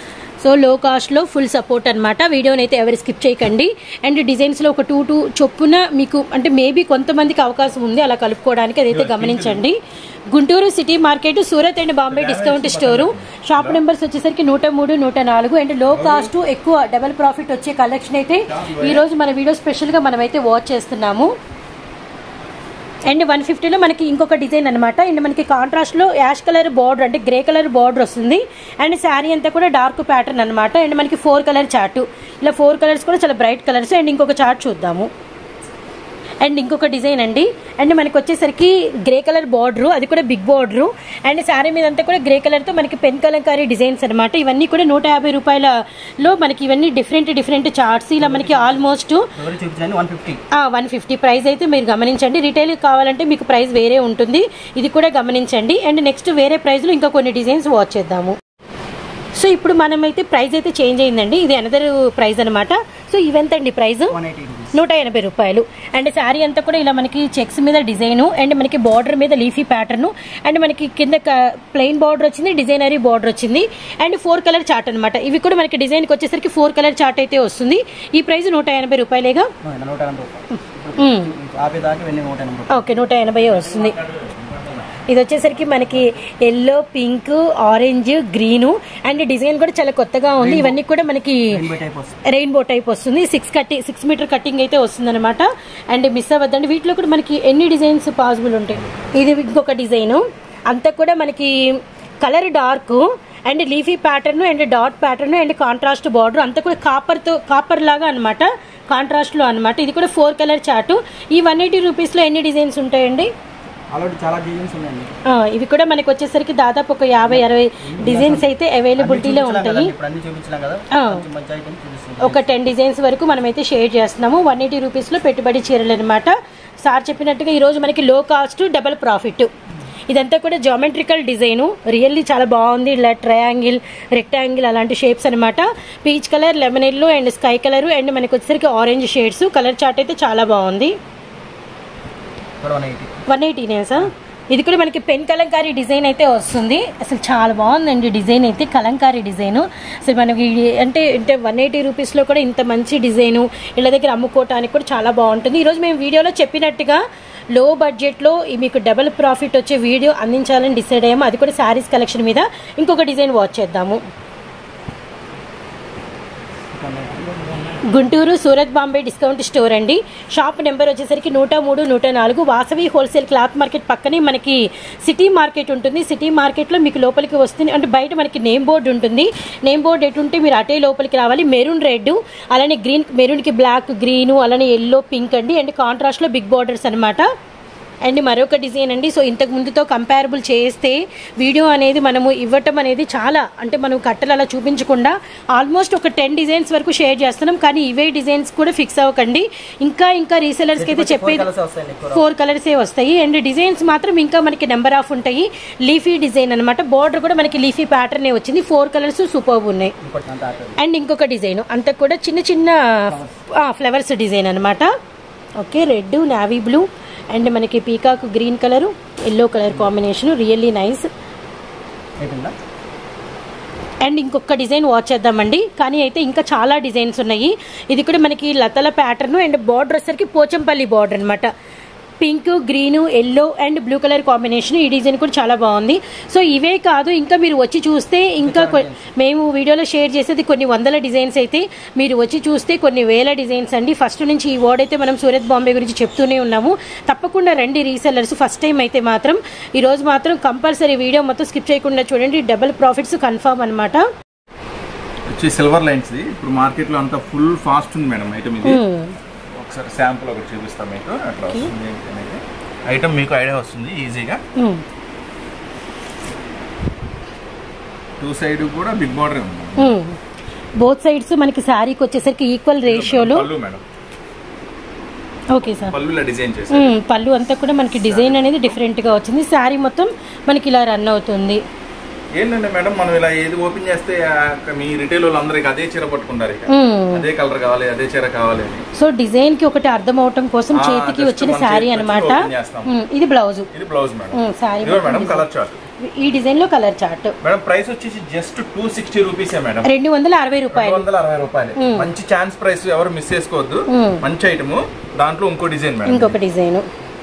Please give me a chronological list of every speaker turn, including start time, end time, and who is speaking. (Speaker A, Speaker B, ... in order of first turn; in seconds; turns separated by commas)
Speaker A: 0.4-9.8, Speaker B: 8.9-9.6, Speaker A: 10.3-21.3, Speaker B: 12.1-13.8, Speaker B: 15.9-16.3, Speaker B: 18.4-19.0, Speaker A: 23.1-35.1, Speaker A: 36.4-49.3, Speaker C: 48.2-50.4, Speaker A: 50.5-58.4, Speaker A: 59.4-64.1, Speaker C: 64.1-64.7, Speaker A: 64.7-79.5, Speaker C: 79.6-83.0, Speaker A: 80.5-81.3, Speaker A: 82.7-84.0, Speaker B: 83.5-84.9, Speaker A: 85.1-91.6, Speaker C: 90.4-90.8, Speaker C: 91.5-92.2, Speaker A: 92.2-113.3, Speaker C: 113.9-115.1, Speaker A: 115.3-119.9, Speaker C: 117.3-122.5, Speaker A: 120.9-121.2, Speaker A: 122.2-129.5, Speaker A: 130.1-140.9, Speaker C: 142.6-143.2, Speaker A: 143.3-157.0, Speaker A: 157.5-164.0, Speaker C: 166.7-167.8, Speaker A: 167.8-187.3, Speaker A: 188.0-201.5, Speaker C: 200.8-202.2, Speaker A: 202.1-209.9, Speaker C: 210.0-210.8, Speaker A: 210.8-214.9, Speaker C: 213.1-213.3, Speaker A: 215.6-221.1, Speaker C: 222.2-222.5, Speaker A: 224.0-231.5, Speaker A: 232.2-254.0, Speaker C: 238.4-239.0, Speaker B: 255.3-258.8, Speaker A: 258.6-259.1, Speaker B: 259.6-264.4, Speaker A: 264.6-264.8, Speaker B: 268.2-269.9, Speaker A: 269.8-270.2, Speaker A: 270.8-273.4, Speaker B: 272.8-273.8, Speaker A: 275.5-275.9, Speaker B: 275.9-276.9, Speaker A: 276.7-281.6, Speaker B: 278.0-278.7, Speaker B: 282.4-288.9, Speaker A: 286.7-287.2, Speaker A: 288.9-293.7, Speaker B: 290.7-292.9, Speaker B: 293.7-295.8, Speaker A: 294.3-295.4, Speaker A: 296.0-297.3, Speaker B: 297.4-299.9, Speaker A: 299.8-301.1, Speaker B: 300.7-306.4, Speaker A: 301.8-302.1, Speaker A: 303.9-304.2, Speaker A: 306.1-306.9